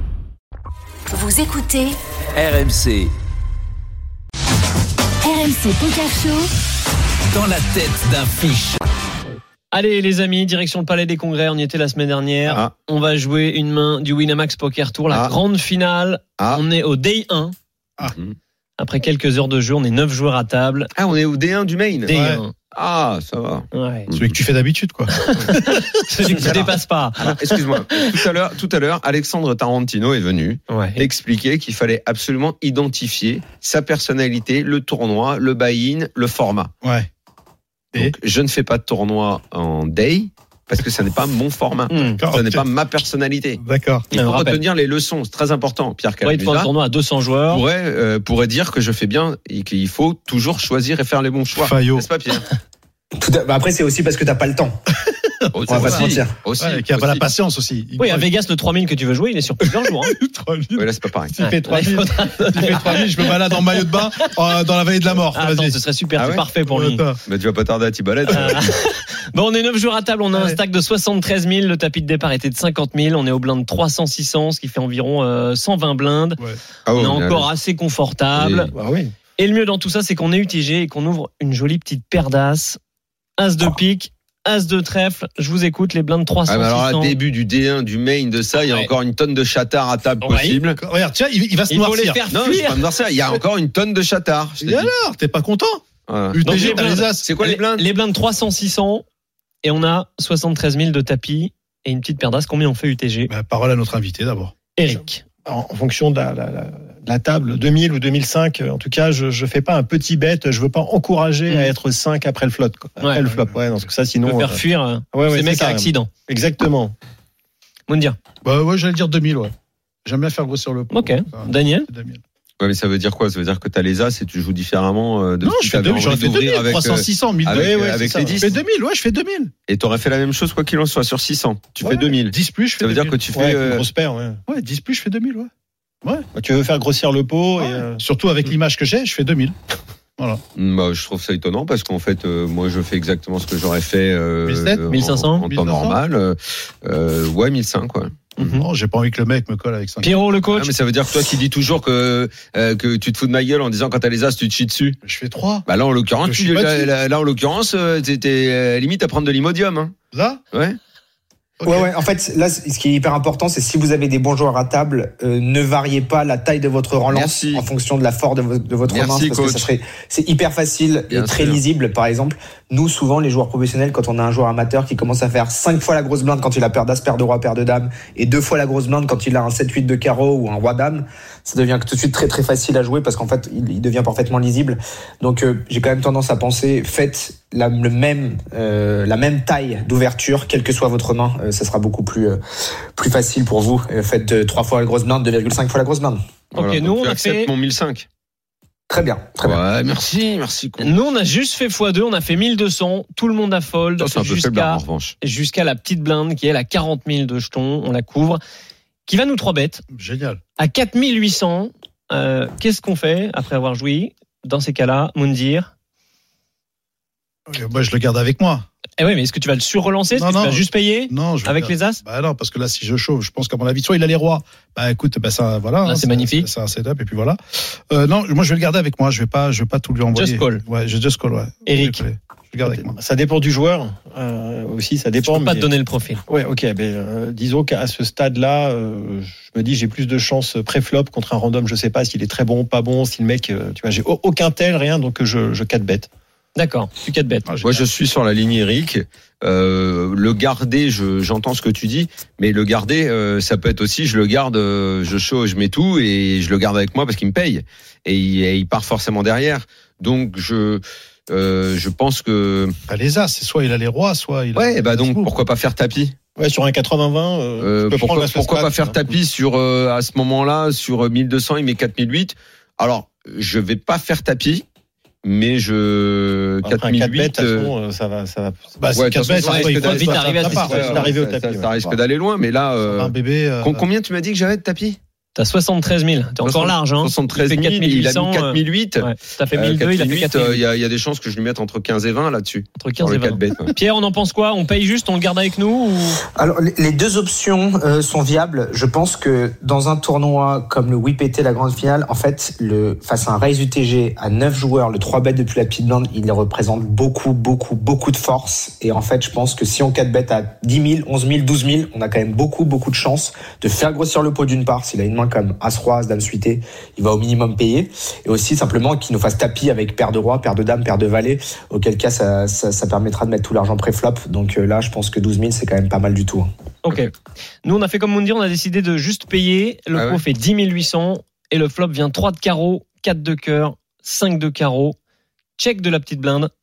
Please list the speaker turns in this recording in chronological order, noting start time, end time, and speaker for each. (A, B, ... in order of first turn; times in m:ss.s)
0:01.1-0:01.9 A
0:02.3-0:03.1 B
0:05.2-0:06.5 A
0:07.3-0:08.8 B
0:09.7-0:17.5 C
0:12.5-0:12.7 D
0:15.1-0:15.4 D
0:18.8-0:20.9 C
0:21.0-0:22.1 D
0:22.0-0:22.5 C
0:22.1-0:22.4 E
0:22.7-0:24.4 D
0:23.7-0:24.1 C
0:24.2-0:25.8 E
0:25.1-0:27.4 C
0:26.3-0:36.7 D
0:30.7-0:31.0 C
0:36.8-0:37.1 E
0:37.9-0:46.7 D
0:41.9-0:42.2 C
0:42.2-0:42.6 E
0:43.6-0:44.0 E
0:44.1-0:44.6 C
0:46.2-0:47.6 C
0:47.5-0:52.5 D
0:51.6-0:52.1 E
0:53.2-0:54.8 F
0:55.5-0:58.3 E
0:55.5-0:57.2 D
0:55.7-0:56.3 F
0:58.0-1:00.1 C
0:59.6-1:05.8 E
1:00.8-1:01.4 D
1:01.4-1:04.0 C
1:05.3-1:07.0 C
1:06.2-1:06.4 D
1:06.6-1:07.2 E
1:07.2-1:08.7 D
1:08.3-1:16.4 C
1:10.3-1:10.6 E
1:16.9-1:17.5 D
1:17.0-1:18.7 C
1:18.4-1:18.7 D
1:18.7-1:19.1 G
1:19.4-1:22.8 C
1:23.4-1:27.2 C
1:26.5-1:30.8 D
1:30.2-1:30.6 C
1:30.8-1:32.2 E
1:31.7-1:32.8 C
1:32.3-1:34.9 D
1:34.6-1:37.3 E
1:36.1-1:37.9 D
1:36.4-1:39.0 C
1:39.6-1:43.3 C
1:43.3-1:44.5 E
1:44.8-1:45.2 C
1:45.4-1:54.6 G
1:51.5-1:51.7 C
1:53.2-1:53.9 E
1:54.2-1:56.1 C
1:55.1-1:57.0 G
1:57.9-1:58.2 C
1:58.4-1:59.5 E
2:00.0-2:02.2 E
2:00.9-2:01.9 C
2:02.6-2:08.5 D
2:05.4-2:07.8 E
2:07.6-2:08.4 G
2:08.4-2:09.5 E
2:09.7-2:13.8 D
2:11.8-2:13.2 E
2:13.3-2:14.4 G
2:14.5-2:15.5 E
2:16.3-2:18.0 G
2:17.6-2:19.5 E
2:20.6-2:28.6 D
2:24.4-2:24.9 E
2:24.9-2:25.4 C
2:25.4-2:26.0 E
2:28.4-2:28.7 C
2:28.6-2:30.2 E
2:30.0-2:30.7 C
2:30.5-2:35.0 D
2:35.0-2:35.6 E
2:35.7-2:39.9 D
2:36.2-2:36.9 E
2:40.1-2:40.4 E
2:40.5-2:40.8 D
2:41.6-2:41.9 E
2:41.6-3:12.4 F
2:47.1-2:47.6 D
2:48.8-2:49.7 D
2:51.1-2:51.6 D
3:13.0-3:16.2 F
3:16.5-3:18.0 D
3:16.5-3:17.5 C
3:18.9-3:19.6 F
3:19.4-3:20.9 D
3:20.8-3:28.4 C
3:24.0-3:25.2 D
3:29.0-3:29.8 C
3:29.9-3:30.4 E
3:30.6-3:35.7 C
3:37.5-3:38.6 E
3:39.0-3:42.0 C
3:40.2-3:52.9 E
3:45.8-3:46.5 C
3:50.1-3:50.6 C
3:51.7-3:52.0 C
3:52.6-3:55.7 G
3:55.2-3:56.2 C
3:56.3-4:06.1 G
4:06.5-4:07.4 C
4:07.4-4:07.8 E
4:07.6-4:22.8 D
4:22.9-4:25.3 E
4:24.5-4:26.1 D
4:26.4-4:28.9 G
4:27.6-4:34.6 D
4:28.1-4:28.9 E
4:35.2-4:37.7 D
4:36.6-4:38.8 G
4:38.8-4:40.9 E
4:38.9-4:45.0 D
4:39.4-4:41.1 C
4:39.9-4:42.0 G
4:42.8-4:43.8 E
4:45.4-4:50.6 C
4:46.4-4:53.7 D
4:52.8-4:56.2 C
4:56.4-5:26.5 F
5:26.8-5:27.1 C
5:27.6-5:35.0 C
5:29.9-5:30.2 D
5:35.6-5:36.5 C